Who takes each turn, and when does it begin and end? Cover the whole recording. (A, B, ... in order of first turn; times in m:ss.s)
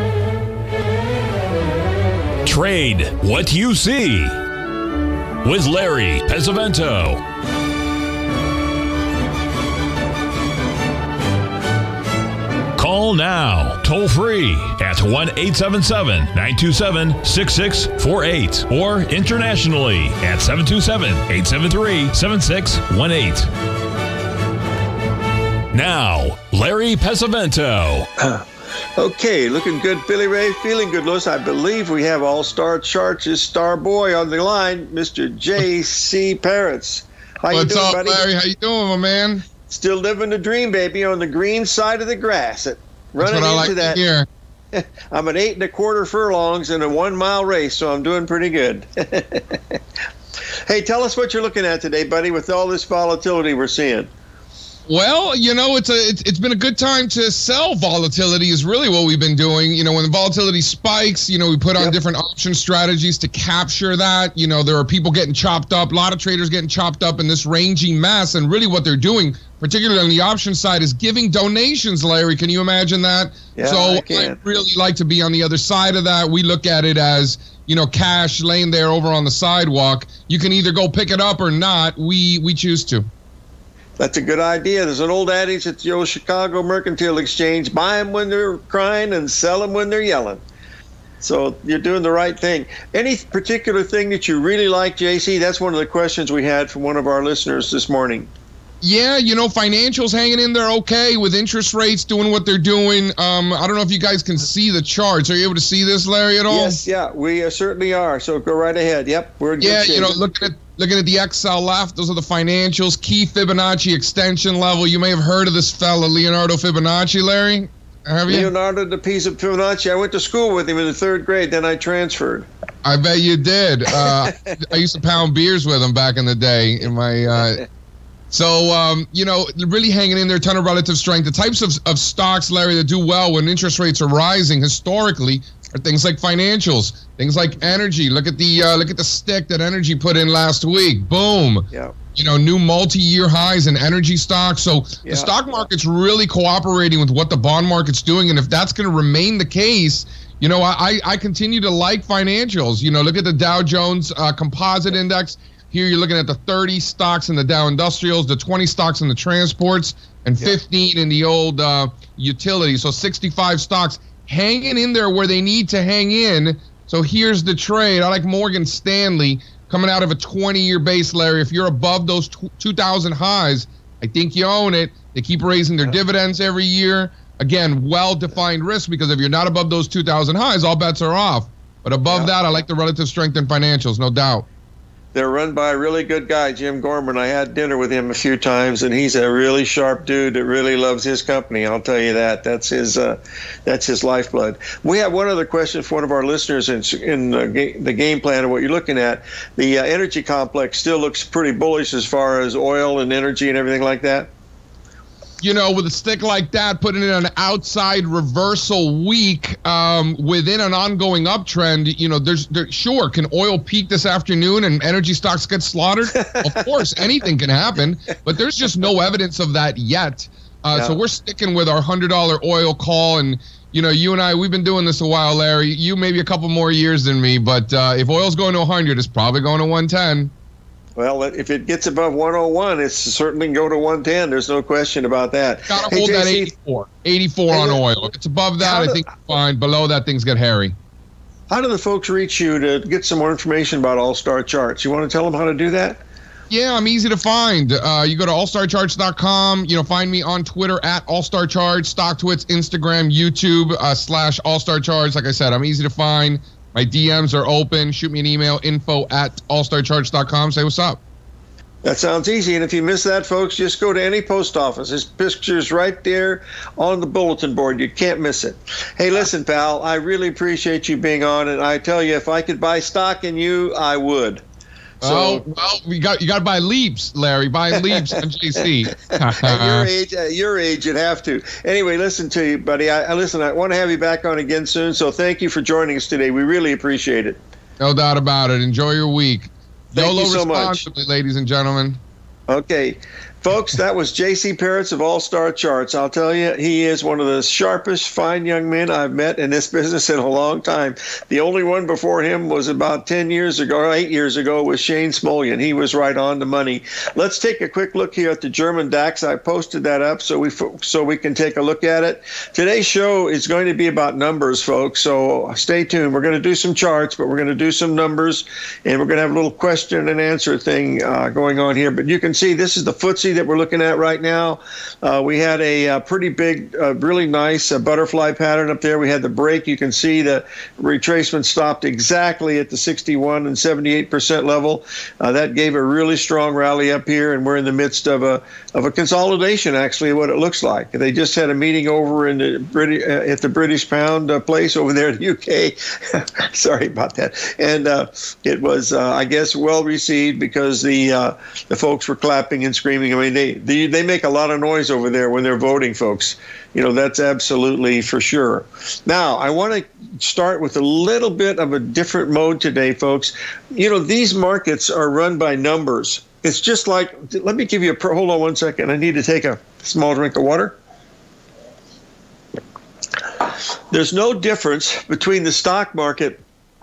0:02.4-0:04.4 A
0:05.4-0:07.2 A
0:12.8-0:23.5 A
0:25.7-0:28.1 A
0:28.2-0:28.4 B
0:29.0-0:38.2 B
0:37.5-0:39.4 C
0:39.7-0:44.0 B
0:43.2-0:44.3 C
0:44.7-0:49.8 B
0:50.7-0:54.1 B
0:54.9-1:23.1 C
1:13.5-1:14.4 B
1:24.0-1:30.4 B
1:31.2-1:38.3 B
1:38.8-1:46.8 C
1:46.5-1:50.2 B
1:49.6-1:58.5 C
1:58.3-2:02.4 B
2:02.8-2:07.6 C
2:04.0-2:04.5 B
2:08.3-3:04.4 C
2:25.0-2:25.6 B
3:02.1-3:02.3 B
3:05.1-3:24.3 B
3:25.4-3:50.3 C
3:36.2-3:36.8 B
3:40.7-3:41.0 B
3:51.0-3:56.5 B
3:55.7-4:00.7 C
3:57.5-3:57.8 B
3:58.6-3:59.0 B
4:01.5-4:06.0 B
4:06.5-4:21.0 C
4:21.8-4:34.4 B
4:35.0-4:35.4 B
4:35.0-4:39.9 C
4:37.8-4:38.2 B
4:39.0-4:47.4 B
4:47.8-4:52.0 C
4:49.9-4:50.8 B
4:52.5-6:10.8 B
6:13.4-6:16.4 B